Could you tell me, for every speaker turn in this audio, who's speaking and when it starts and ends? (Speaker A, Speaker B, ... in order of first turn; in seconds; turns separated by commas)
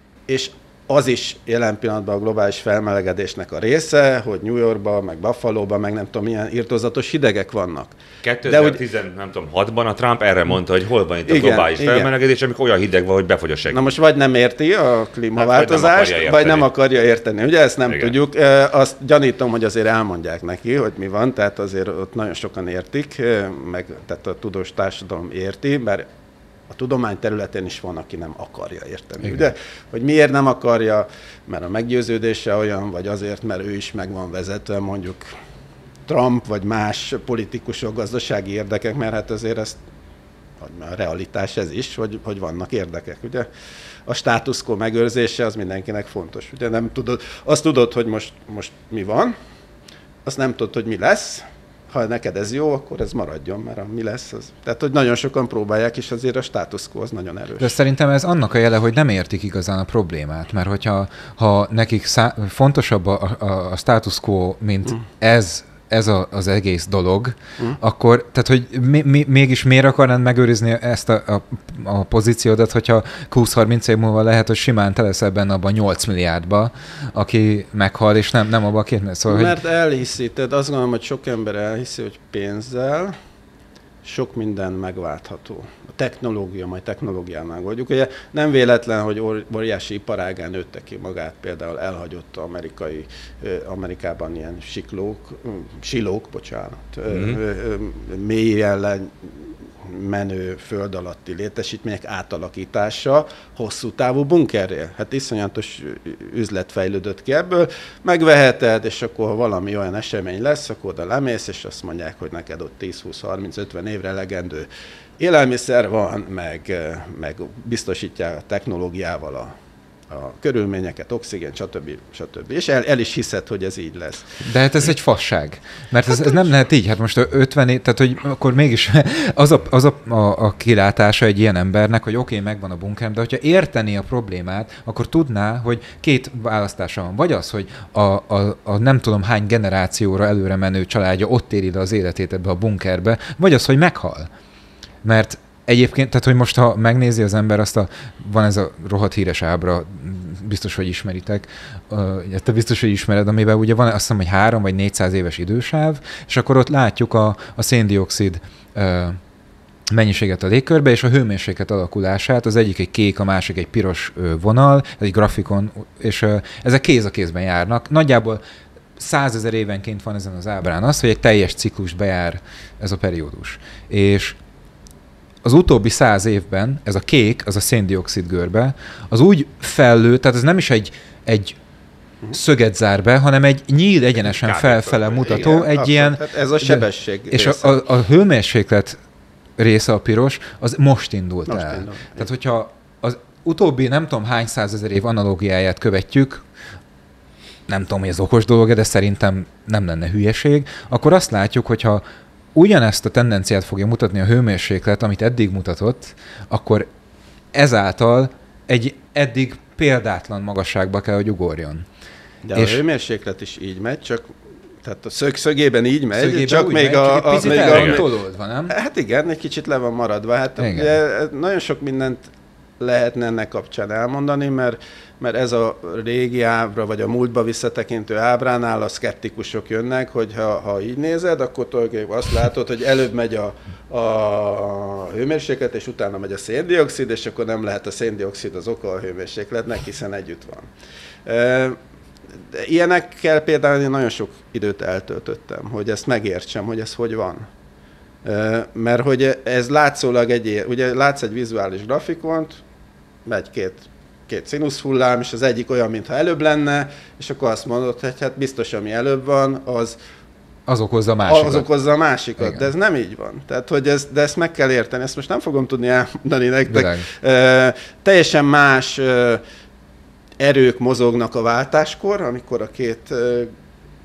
Speaker A: 0.3-8.8, Speaker B: 8.2-13.9, Speaker A: 11.3-12.1, Speaker A: 13.7-26.1, Speaker B: 15.4-16.7, Speaker B: 17.9-18.1, Speaker A: 26.7-35.3, Speaker A: 36.1-39.8, Speaker A: 40.6-43.5, Speaker A: 44.1-49.4, Speaker A: 50.2-57.8, Speaker C: 57.6-79.5, Speaker A: 79.3-83.2, Speaker A: 84.0-114.7, Speaker B: 97.1-97.4, Speaker A: 115.2-119.5, Speaker A: 120.1-124.4, Speaker C: 124.4-144.3, Speaker C: 145.0-159.2, Speaker C: 159.9-168.4, Speaker C: 169.0-174.4, Speaker C: 175.4-181.6, Speaker C: 182.3-189.0, Speaker B: 184.2-185.5, Speaker A: 185.3-187.8, Speaker C: 189.6-196.4, Speaker A: 191.5-192.3, Speaker C: 197.7-202.0, Speaker C: 202.6-206.9, Speaker C: 207.5-211.8, Speaker A: 212.4-214.3, Speaker C: 212.5-212.8, Speaker A: 214.8-218.1, Speaker C: 216.1-218.7, Speaker B: 217.5-218.0, Speaker A: 218.7-222.3, Speaker C: 220.6-220.9, Speaker A: 222.8-240.7, Speaker A: 241.2-241.8, Speaker A: 242.5-247.5, Speaker A: 248.2-252.6, Speaker A: 253.2-260.0, Speaker C: 260.7-261.7, Speaker A: 261.3-269.4, Speaker C: 262.4-262.7, Speaker C: 266.7-267.1, Speaker A: 270.4-273.5